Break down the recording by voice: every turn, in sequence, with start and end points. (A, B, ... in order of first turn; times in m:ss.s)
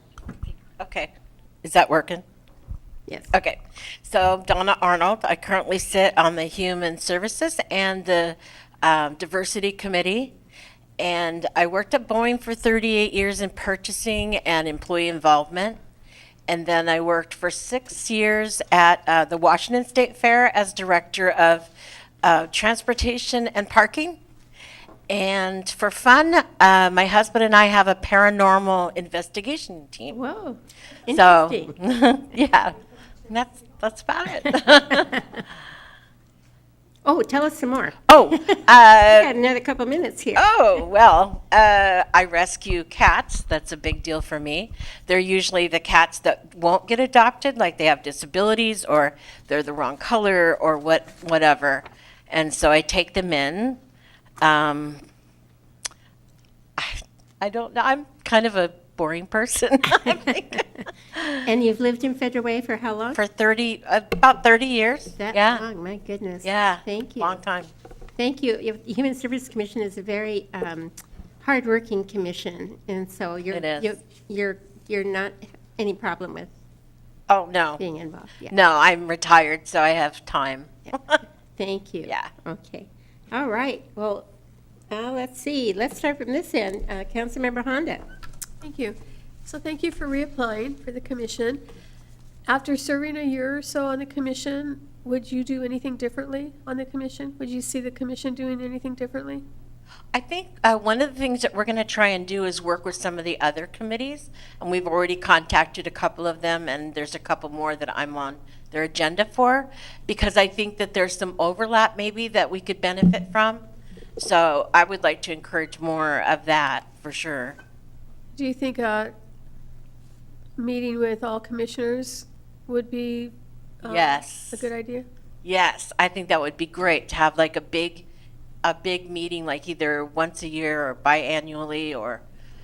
0:00.8-0:01.1 A
0:01.6-0:02.2 A
0:03.3-0:10.3 A
0:11.0-0:15.8 A
0:16.5-0:21.7 A
0:22.2-0:24.2 A
0:25.1-0:30.2 A
0:30.1-0:31.7 B
0:31.1-0:32.8 A
0:33.3-0:35.2 A
0:37.0-0:38.0 B
0:38.1-0:39.3 A
0:38.5-0:40.4 B
0:40.4-0:53.8 A
0:54.4-0:55.0 A
0:56.8-1:00.6 A
1:01.2-1:01.4 A
1:01.5-1:03.2 B
1:03.2-1:05.6 A
1:05.2-1:07.4 B
1:06.4-1:07.7 A
1:08.2-1:16.5 B
1:13.5-1:13.9 A
1:17.3-1:17.8 A
1:17.8-1:18.5 B
1:18.5-1:21.2 A
1:21.6-1:24.3 B
1:24.9-1:28.0 B
1:28.6-1:31.6 C
1:32.5-1:39.4 C
1:40.1-1:53.6 A
1:54.2-1:57.6 A
1:58.4-1:59.1 C
2:00.6-2:05.1 C
2:03.8-2:04.7 A
2:05.4-2:08.1 A
2:08.6-2:12.2 A